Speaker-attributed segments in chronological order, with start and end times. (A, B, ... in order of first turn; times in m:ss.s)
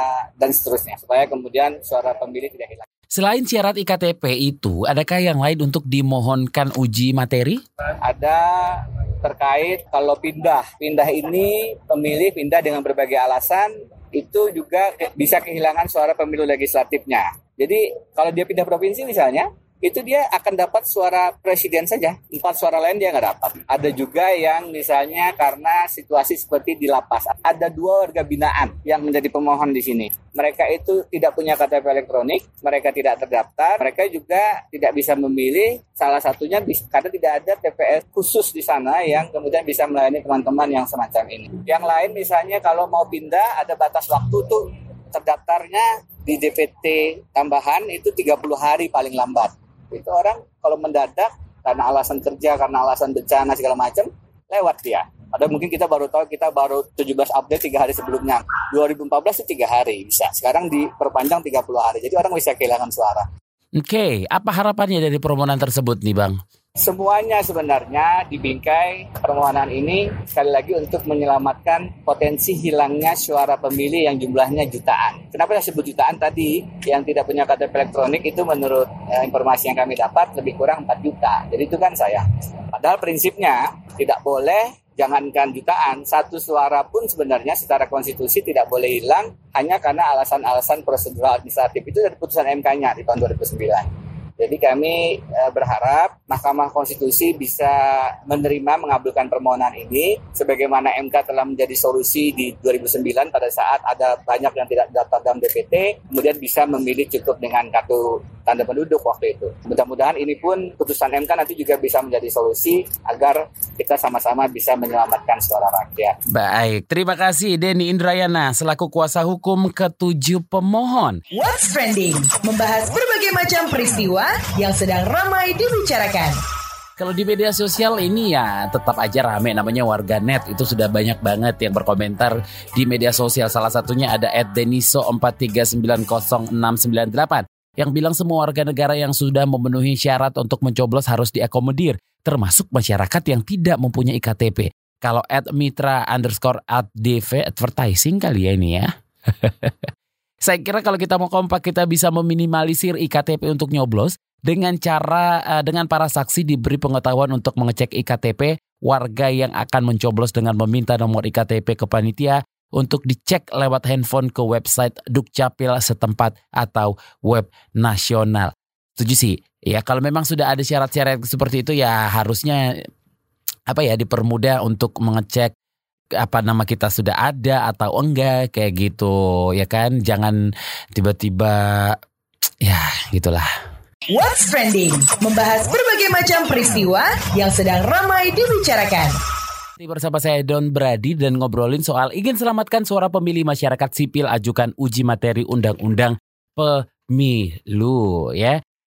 0:00.4-0:02.8 A
0:03.1-0:07.6 B
0:08.0-1:03.3 A
1:03.8-1:06.4 B
1:06.8-1:22.2 A
1:22.7-1:33.9 A
1:34.4-1:56.2 A
1:56.3-2:01.2 B
2:01.3-2:06.4 C
2:07.0-2:29.9 B
2:30.4-2:52.6 B
2:53.7-2:55.5 B
2:56.2-3:00.4 B
3:01.0-3:02.0 B
3:02.6-3:03.5 B
3:04.1-3:09.2 C
3:09.8-3:18.6 B